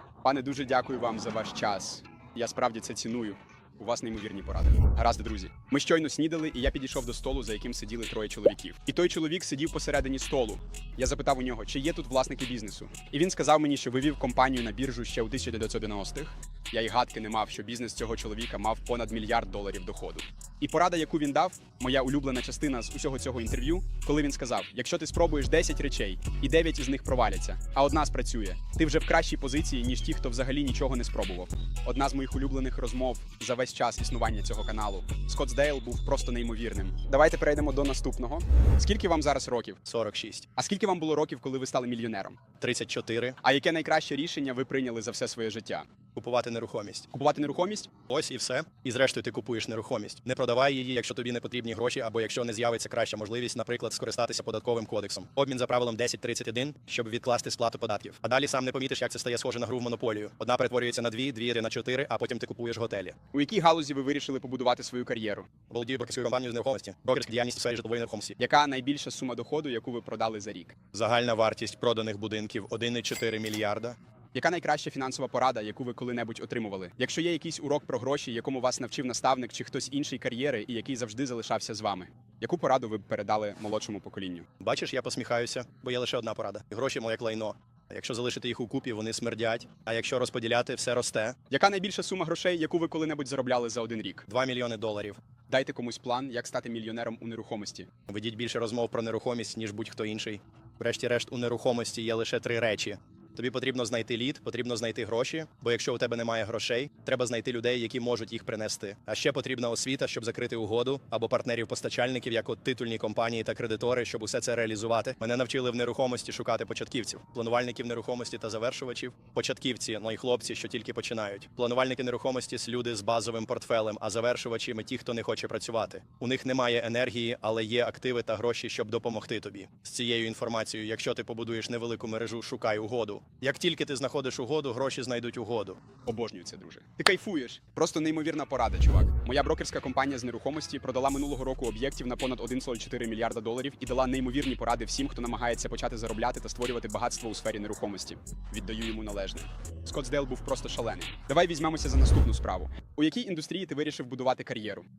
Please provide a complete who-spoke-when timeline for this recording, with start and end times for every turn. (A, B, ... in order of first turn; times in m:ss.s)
0:00.2-0:39.8 A
0:39.8-0:40.4 B
0:40.6-0:42.4 A
0:42.6-0:43.4 B
0:43.4-0:45.9 A
0:46.1-0:47.0 B
0:47.1-0:47.9 A
0:48.1-1:03.1 B
1:03.3-1:05.5 A
1:05.7-1:08.3 B
1:08.4-1:10.8 A
1:10.9-1:14.0 B
1:14.3-1:24.4 A
1:24.6-1:31.3 B
1:31.5-1:34.2 A
1:34.3-1:35.2 B
1:35.5-1:37.9 A
1:38.1-2:15.8 B
2:16.0-2:34.8 A